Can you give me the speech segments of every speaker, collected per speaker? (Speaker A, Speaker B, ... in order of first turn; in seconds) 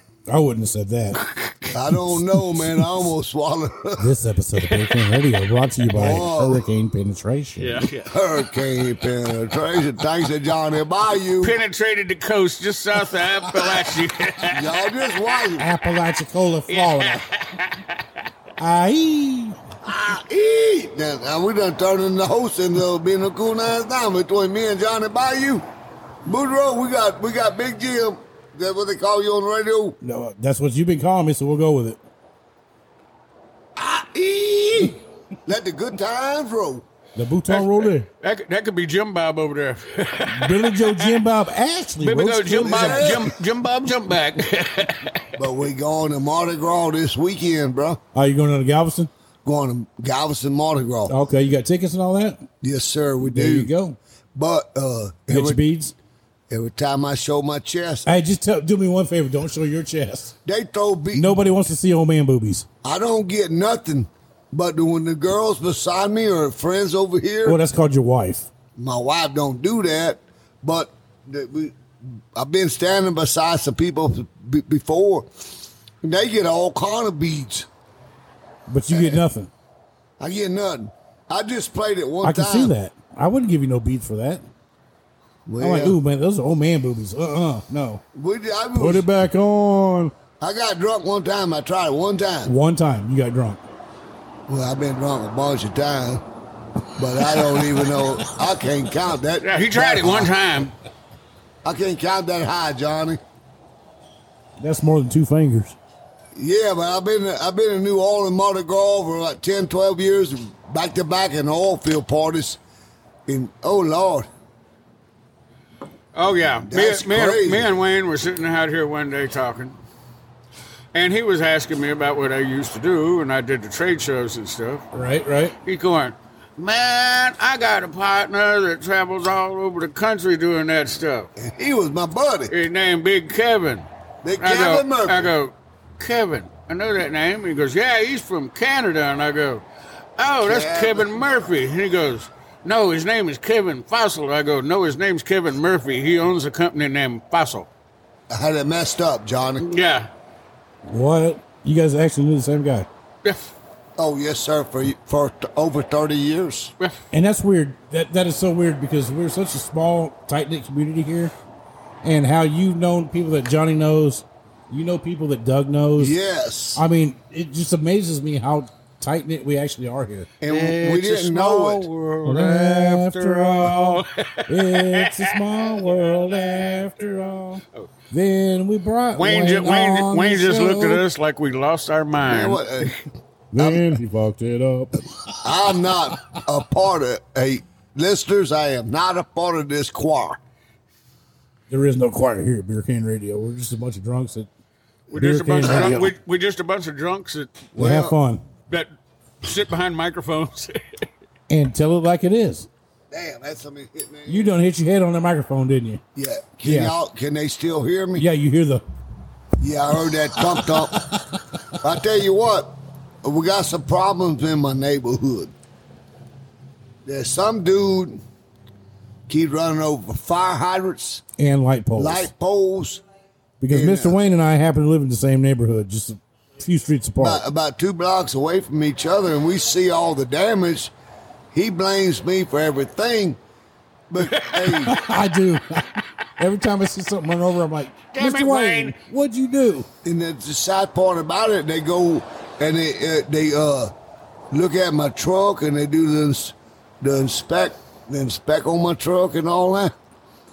Speaker A: 0.3-1.2, 4.0-7.8, 15.6-17.2, 18.6-19.6, 30.0-32.0, 37.1-38.1, 40.3-43.3, 48.1-49.1, 51.1-52.4, 53.2-54.0, 55.3-55.9, 58.0-60.3, 61.1-62.6, 67.4-68.5, 78.7-79.5, 82.2-84.4, 85.6-88.0, 88.8-90.1, 92.5-93.6, 104.6-105.8, 124.9-125.5, 150.8-152.9, 157.1-161.3, 162.0-166.2, 166.7-170.3, 172.2-181.0, 183.5-185.0, 191.7-194.5, 195.1-196.1, 197.8-198.4, 201.5-202.7, 204.3-206.0, 206.6-206.9, 208.2-208.8, 221.4-222.3, 223.6-227.4, 234.8-239.9
Speaker B: 1.7-4.0, 5.9-6.6, 8.1-11.5, 14.5-15.7, 19.8-25.6, 26.2-30.0, 33.8-36.8, 42.6-43.3, 45.4-48.0, 49.4-51.1, 52.6-53.7, 54.3-55.6, 56.5-58.1, 60.4-61.4, 62.8-67.6, 68.8-71.8, 72.3-75.3, 76.0-77.7, 78.9-79.2, 80.2-82.7, 85.5-86.0, 88.1-89.1, 90.4-92.5, 94.5-96.2, 97.0-100.3, 101.6-103.2, 106.3-112.6, 113.3-114.3, 116.6-117.7, 131.4-132.5, 134.2-135.3, 140.4-141.4, 148.3-149.7, 154.0-156.7, 166.0-166.8, 170.4-171.9, 182.2-182.9, 183.6-183.9, 185.4-190.4, 195.6-196.1, 197.7-198.2, 203.1-204.5, 206.1-208.3, 209.6-211.0, 211.7-215.5, 217.0-218.2, 219.3-221.2, 221.9-223.0, 223.7-224.2, 227.2-230.9, 231.5-233.4, 234.1-234.9, 240.0-243.9, 244.5-249.9
Speaker C: 7.6-8.1, 11.4-14.6, 16.7-18.0, 37.5-41.1, 42.0-45.2, 99.4-100.7, 116.1-119.8, 120.9-124.8, 125.6-131.3, 132.5-133.9, 134.4-139.6, 140.2-147.7, 149.6-150.1, 170.4-175.8, 179.1-182.9, 195.1-197.5, 199.4-201.1, 234.3-234.7, 238.1-239.0